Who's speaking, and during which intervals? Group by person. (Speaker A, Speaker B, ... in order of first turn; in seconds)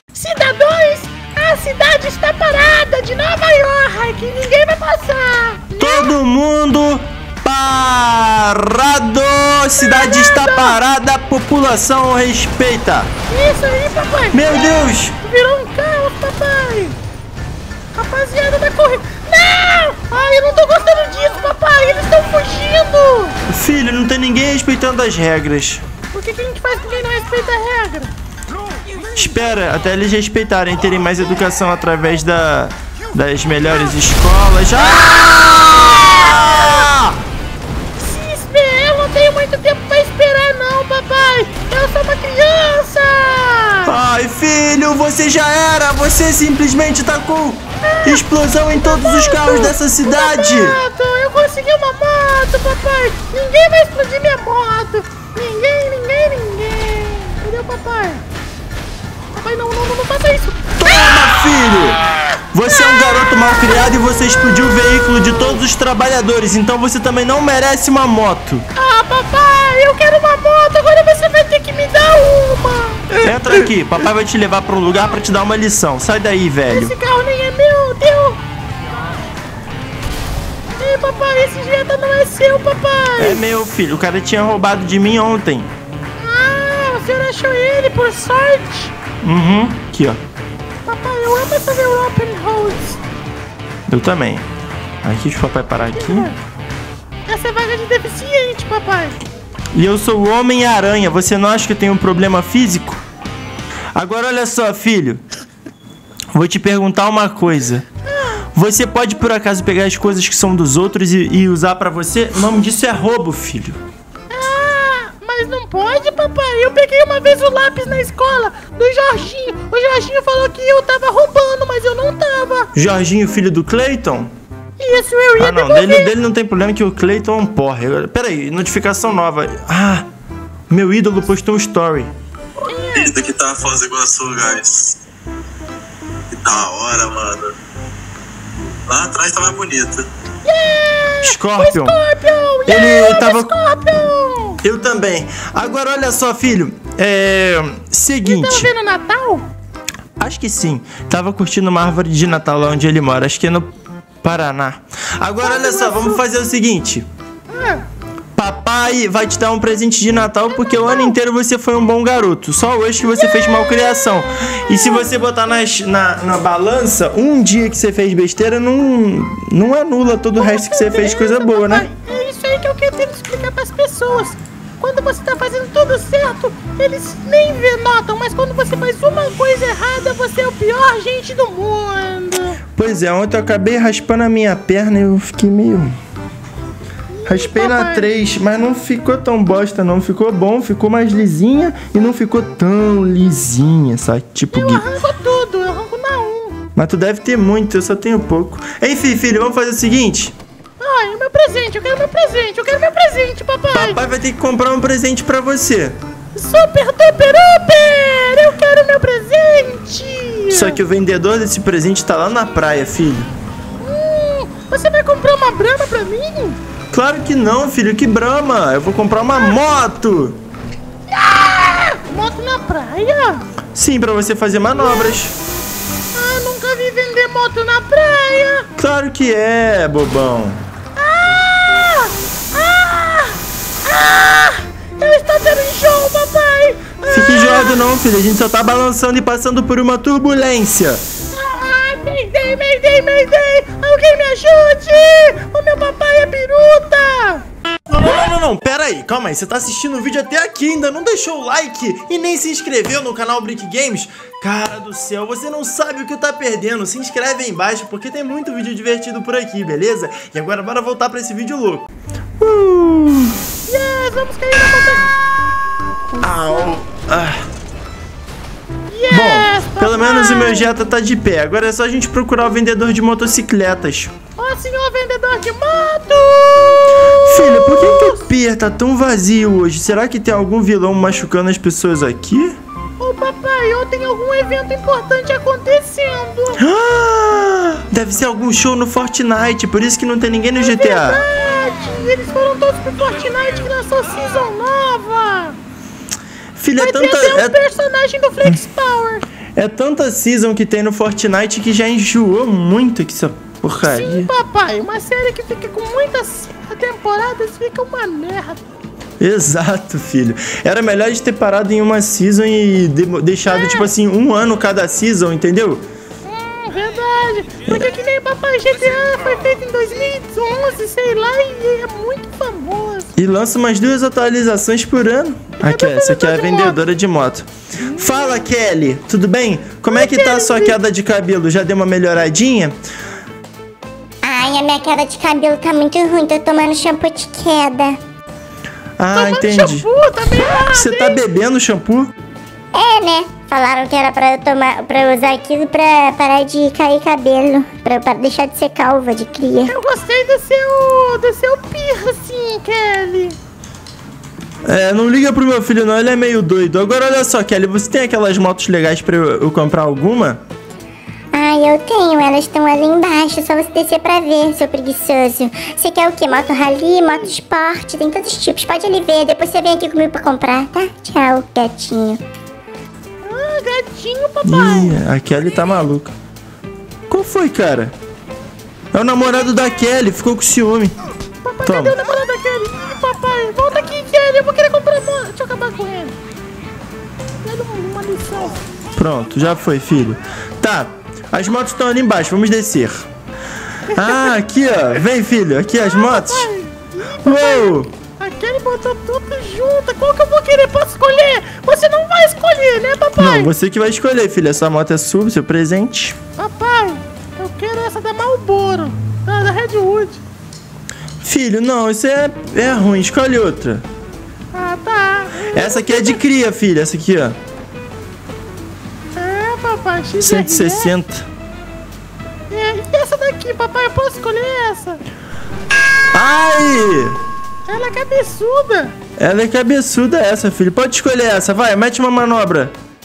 Speaker A: 0.1-6.1, 9.8-10.8, 13.3-17.0, 17.9-23.4, 26.1-28.1, 38.0-43.9, 47.9-58.2, 59.3-60.7, 62.7-64.1, 64.6-65.6, 68.8-73.2, 76.7-78.4, 80.8-83.4, 86.2-88.9, 90.9-93.0, 96.0-96.4, 97.3-99.2, 108.1-108.4, 114.3-122.7, 124.8-126.1, 132.7-133.2, 140.4-144.6, 148.2-149.5, 155.4-156.2, 157.5-157.8, 160.7-161.2, 163.2-164.1, 164.7-165.1, 170.3-182.6, 187.1-188.1, 194.5-196.6, 200.8-204.0, 206.3-210.8, 213.8-216.6, 221.1-223.4, 224.7-225.2, 226.2-228.7, 231.0-237.9, 241.3-247.4, 263.7-265.1, 266.1-266.7, 268.9-270.7, 274.4-278.2, 283.0-286.6, 290.6-295.6, 296.8-299.2, 303.8-308.6, 313.5-313.9, 316.3-323.1, 325.6-326.8, 327.9-328.4, 329.9-330.8, 339.1-341.2, 349.7-353.4, 366.3-367.3, 373.2-375.0, 381.4-386.2, 387.4-388.6, 394.0-394.3, 395.7-403.5, 406.4-410.2, 414.5-416.2, 419.1-420.9, 422.5-425.0, 427.7-428.9
Speaker B: 5.8-13.1, 14.3-15.2, 23.5-25.8, 29.2-37.2, 43.9-50.8, 60.8-68.7, 73.2-76.9, 83.2-85.7, 89.2-90.2, 93.9-94.5, 95.0-96.3, 99.7-103.0, 104.0-105.2, 106.3-107.9, 108.5-113.8, 122.8-124.3, 125.4-130.1, 130.7-132.1, 141.2-142.0, 142.7-143.5, 144.6-148.7, 150.2-153.7, 154.2-157.1, 158.4-171.9, 182.8-185.9, 187.3-194.9, 196.8-200.4, 203.7-206.0, 210.5-213.3, 216.9-220.4, 223.7-225.3, 228.8-230.6, 237.1-241.0, 247.9-261.9, 262.4-263.3, 266.2-267.4, 269.1-274.1, 277.1-282.6, 286.6-291.2, 296.6-297.6, 299.6-304.3, 309.2-315.9, 317.7-318.0, 323.1-332.8, 339.0-339.9, 340.7-342.1, 354.6-360.4, 374.4-376.1, 377.1-377.9, 378.9-380.9, 381.6-382.0, 389.0-393.1, 393.9-396.5, 397.2-397.9, 403.2-406.2, 411.2-413.9, 415.5-417.4, 420.2-421.3, 426.1-427.2, 429.2-432.7
Speaker C: 132.6-135.0, 136.3-137.5, 138.9-140.1
Speaker D: 334.2-338.0, 342.7-349.8, 361.3-372.2